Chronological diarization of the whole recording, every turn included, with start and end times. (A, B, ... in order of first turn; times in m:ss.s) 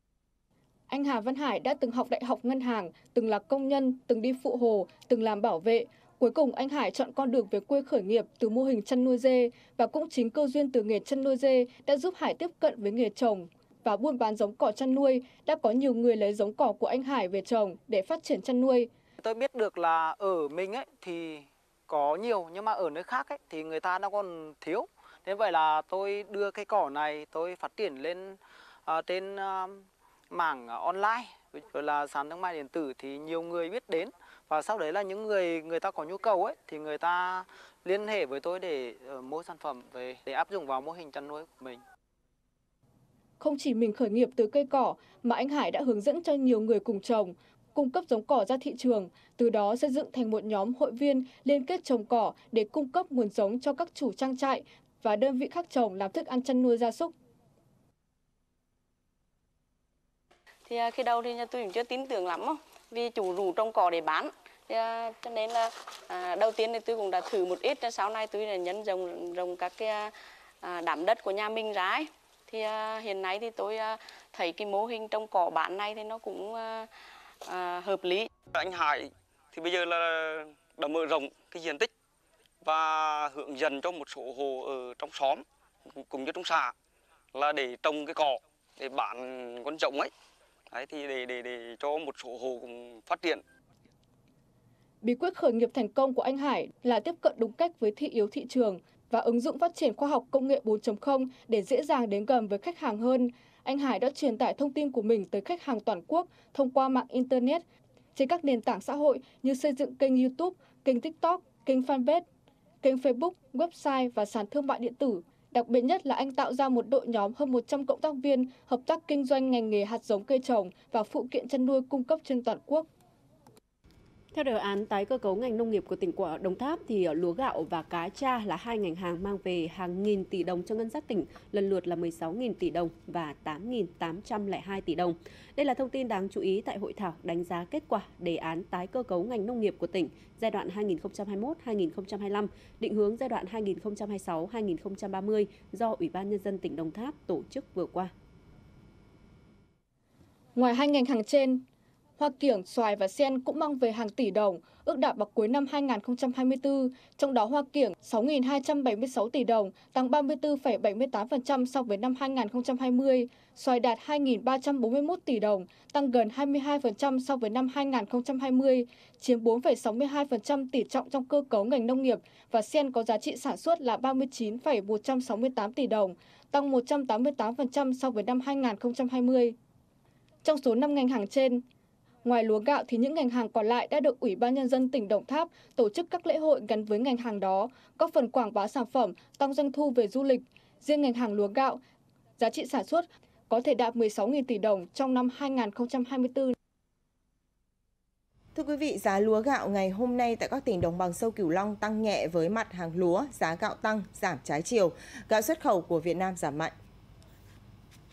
0:00.9-0:18.9 A
0:19.2-0:41.8 B
0:43.4-0:57.1 A
1:00.6-1:18.3 C
1:18.5-1:21.9 D
1:22.6-1:25.4 D
1:26.0-1:26.7 D
1:27.3-1:30.1 D
1:30.7-1:33.4 D
1:35.0-1:47.6 A
1:48.1-1:52.2 A
1:52.8-2:02.9 A
2:04.3-2:28.1 E
2:30.5-2:31.6 A
2:32.2-2:59.5 A
3:00.4-3:01.6 A
3:02.2-3:11.8 A
3:12.4-3:16.5 A
3:18.5-3:26.7 F